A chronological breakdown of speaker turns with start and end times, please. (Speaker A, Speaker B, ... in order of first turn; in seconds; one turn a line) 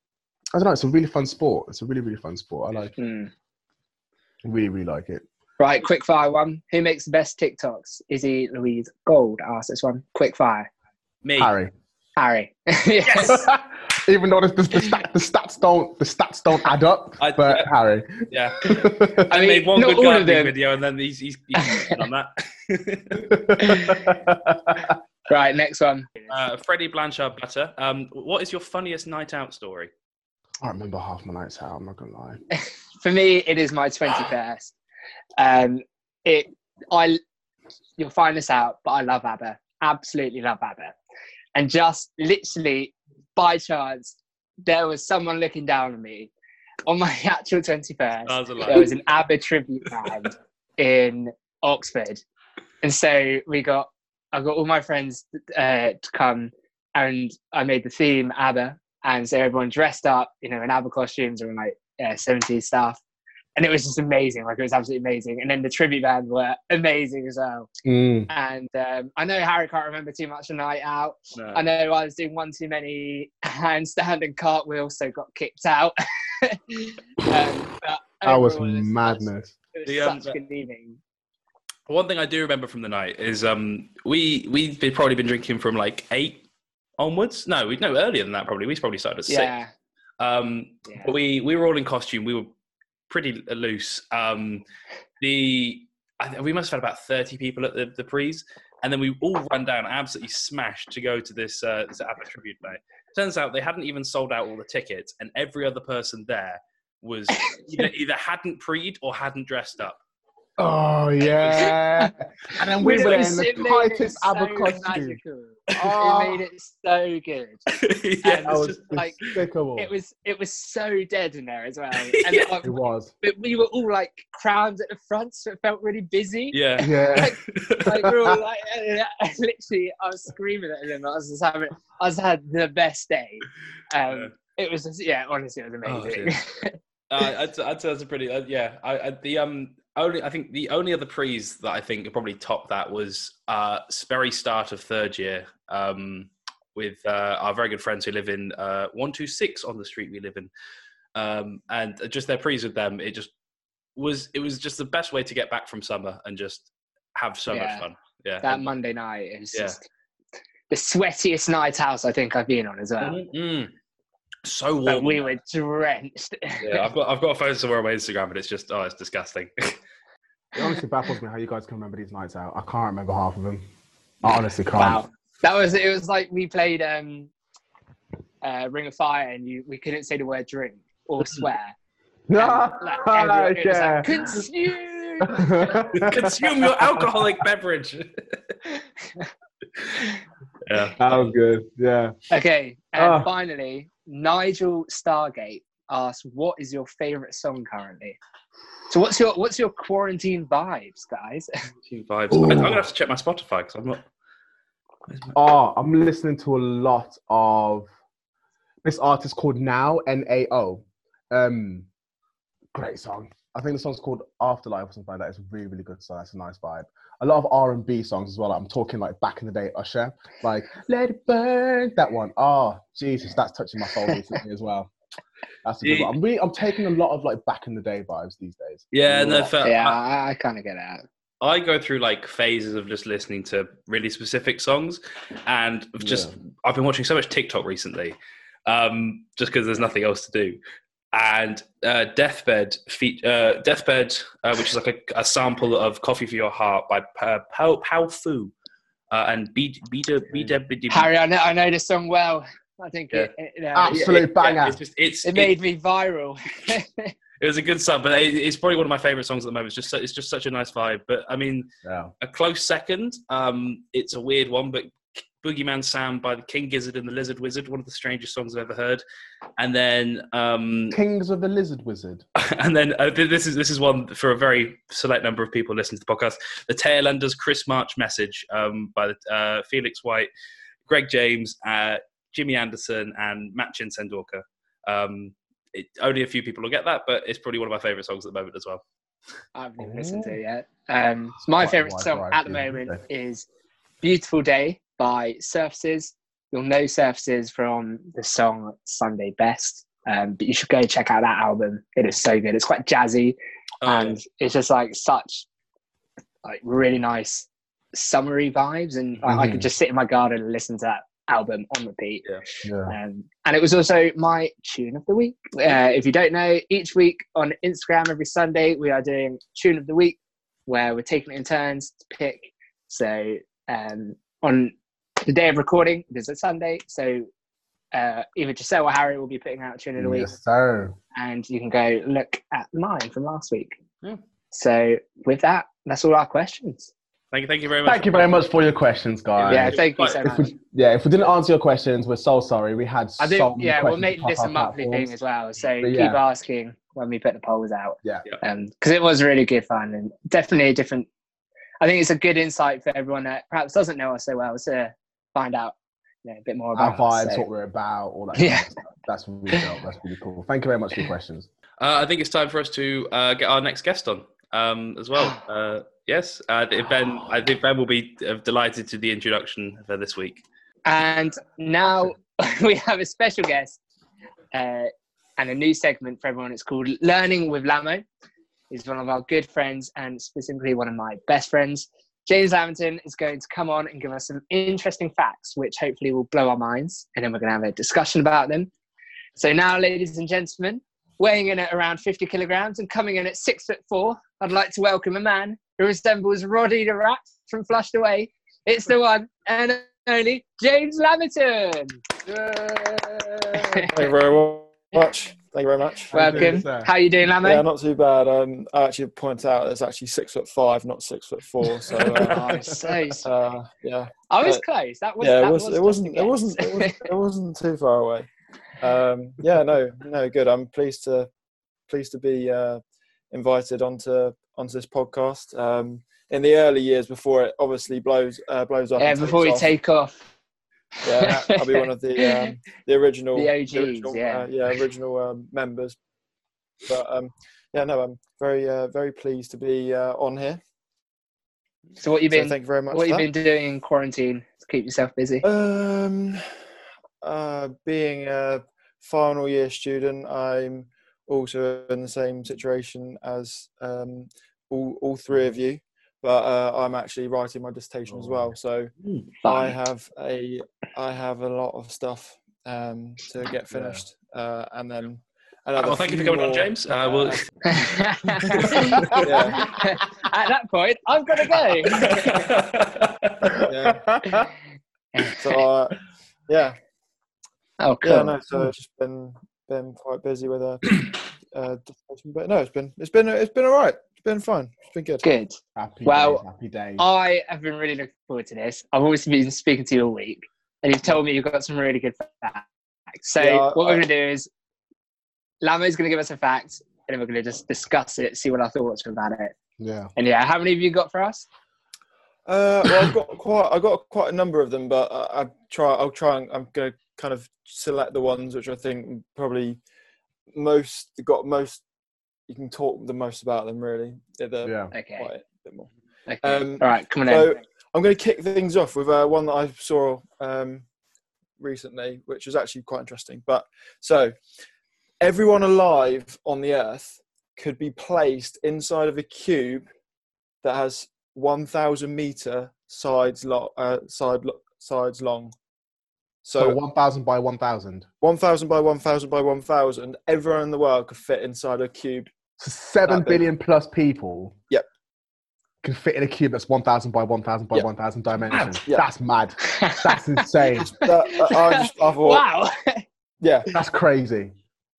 Speaker A: 0.5-2.9
Speaker B: 3.0-3.3
Speaker A: 4.4-5.2
Speaker B: 5.6-10.7
Speaker C: 11.2-11.5
Speaker A: 11.4-11.7
Speaker B: 12.2-13.5
Speaker A: 13.1-19.3
Speaker C: 17.2-17.7
Speaker C: 18.3-24.0
Speaker B: 19.3-20.5
Speaker B: 21.6-22.0
Speaker A: 23.3-24.9
Speaker B: 25.3-26.4
Speaker C: 26.3-29.9
Speaker A: 30.6-32.4
Speaker B: 32.6-34.7
Speaker B: 35.4-37.2
Speaker B: 38.0-41.0
Speaker B: 41.5-46.3
Speaker B: 46.9-52.2
Speaker C: 48.3-48.9
Speaker B: 52.8-63.0
Speaker B: 63.6-67.7
Speaker A: 67.8-68.3
Speaker B: 68.3-81.0
Speaker C: 71.3-71.6
Speaker A: 78.2-79.5
Speaker C: 79.9-80.4
Speaker C: 81.9-86.5
Speaker C: 87.0-89.5
Speaker B: 89.3-89.7
Speaker C: 90.2-92.5
Speaker C: 93.1-94.6
Speaker C: 95.2-110.0
Speaker A: 110.6-115.2
Speaker C: 111.2-111.7
Speaker B: 112.8-117.7
Speaker A: 115.8-116.4
Speaker C: 117.7-119.0
Speaker B: 118.2-119.2
Speaker A: 118.4-119.9
Speaker B: 119.8-126.6
Speaker C: 122.1-122.5
Speaker A: 122.6-123.1
Speaker C: 126.5-128.1
Speaker A: 126.8-127.3
Speaker B: 127.2-136.8
Speaker C: 134.1-134.3
Speaker C: 135.9-136.4
Speaker C: 137.1-150.5
Speaker C: 151.2-153.3
Speaker C: 154.0-158.7
Speaker B: 157.5-157.8
Speaker B: 158.4-159.8
Speaker B: 160.7-163.2
Speaker C: 163.0-163.7
Speaker C: 164.4-165.3
Speaker B: 164.9-166.9
Speaker C: 166.6-169.8
Speaker A: 170.6-173.6
Speaker A: 174.2-175.0
Speaker B: 174.8-177.3
Speaker B: 178.4-181.8
Speaker A: 182.3-184.4
Speaker B: 182.4-185.8
Speaker A: 185.2-187.0
Speaker C: 185.9-188.4
Speaker C: 190.7-191.3
Speaker A: 191.0-192.2
Speaker B: 192.3-198.2
Speaker A: 193.0-193.3
Speaker B: 198.9-201.5
Speaker C: 201.8-204.0
Speaker A: 202.3-202.8
Speaker C: 205.1-205.4
Speaker A: 205.3-207.9
Speaker A: 208.8-211.9
Speaker A: 212.7-224.9
Speaker A: 225.6-229.5
Speaker C: 225.8-226.1
Speaker C: 228.9-230.0
Speaker B: 229.6-231.0
Speaker C: 231.4-240.6
Speaker A: 236.0-236.3
Speaker C: 241.1-248.5
Speaker C: 249.1-251.1
Speaker B: 250.9-254.6
Speaker A: 253.8-254.8
Speaker C: 253.9-255.6
Speaker B: 255.2-257.1
Speaker C: 257.4-261.7
Speaker A: 261.8-262.1
Speaker C: 262.2-269.0
Speaker C: 269.6-271.0
Speaker A: 270.9-272.2
Speaker C: 272.4-280.3
Speaker C: 280.9-288.8
Speaker B: 289.6-293.5
Speaker A: 289.8-290.4
Speaker A: 291.5-293.0
Speaker B: 294.0-305.5
Speaker C: 303.8-304.2
Speaker B: 306.4-312.2
Speaker A: 309.2-309.7
Speaker A: 312.6-312.9
Speaker B: 312.9-327.3
Speaker B: 327.9-330.3
Speaker A: 330.0-331.0
Speaker B: 331.1-333.8
Speaker B: 334.5-336.9
Speaker C: 337.3-338.4
Speaker A: 337.9-345.1
Speaker C: 339.4-340.2
Speaker B: 339.5-340.5
Speaker B: 343.2-351.1
Speaker A: 345.8-346.2
Speaker B: 351.8-357.5
Speaker A: 356.8-361.5
Speaker B: 358.4-358.7
Speaker C: 361.8-370.4
Speaker B: 370.9-373.8
Speaker B: 374.5-378.1
Speaker B: 378.7-388.7
Speaker B: 389.4-402.0
Speaker A: 402.3-403.9
Speaker B: 403.6-403.9
Speaker D: 403.9-406.6
Speaker A: 406.1-406.9
Speaker B: 406.1-407.6
Speaker D: 407.4-414.6
Speaker B: 412.1-413.3
Speaker B: 414.3-417.1
Speaker D: 415.2-418.3
Speaker D: 418.8-421.3
Speaker D: 421.9-429.7
Speaker B: 429.0-430.2
Speaker B: 431.0-432.5
Speaker D: 431.0-436.0
Speaker B: 433.4-434.5
Speaker D: 436.9-440.6
Speaker B: 442.0-445.4
Speaker D: 442.3-443.3
Speaker D: 445.4-446.4
Speaker D: 447.2-458.9
Speaker A: 458.1-458.5
Speaker C: 459.0-459.3
Speaker B: 459.4-459.8
Speaker D: 459.4-467.4
Speaker A: 463.7-464.0
Speaker C: 465.8-469.2
Speaker B: 467.6-472.4
Speaker D: 468.6-469.8
Speaker C: 471.9-473.6
Speaker A: 473.5-474.5
Speaker D: 473.7-474.1
Speaker D: 475.3-476.0
Speaker D: 476.5-476.8
Speaker B: 477.8-478.4
Speaker D: 478.0-485.2
Speaker B: 485.2-486.4
Speaker A: 485.8-487.0
Speaker B: 487.0-492.7
Speaker B: 493.2-494.5
Speaker D: 493.4-494.0
Speaker B: 495.6-499.6
Speaker A: 499.8-500.1
Speaker B: 500.2-501.5
Speaker D: 502.5-509.8
Speaker D: 510.5-511.8
Speaker D: 512.5-515.9
Speaker A: 514.6-514.9
Speaker B: 514.9-515.3
Speaker B: 516.3-517.5
Speaker D: 516.4-520.9
Speaker D: 521.6-524.4
Speaker D: 525.2-529.9
Speaker D: 530.6-535.5
Speaker D: 536.4-536.8
Speaker A: 536.6-538.1
Speaker D: 538.2-542.3
Speaker A: 542.6-544.5
Speaker D: 543.1-543.4
Speaker A: 545.8-550.9
Speaker C: 548.5-548.8
Speaker B: 549.6-550.5
Speaker D: 550.8-552.4
Speaker B: 551.1-553.0
Speaker D: 553.4-553.7
Speaker A: 553.7-554.5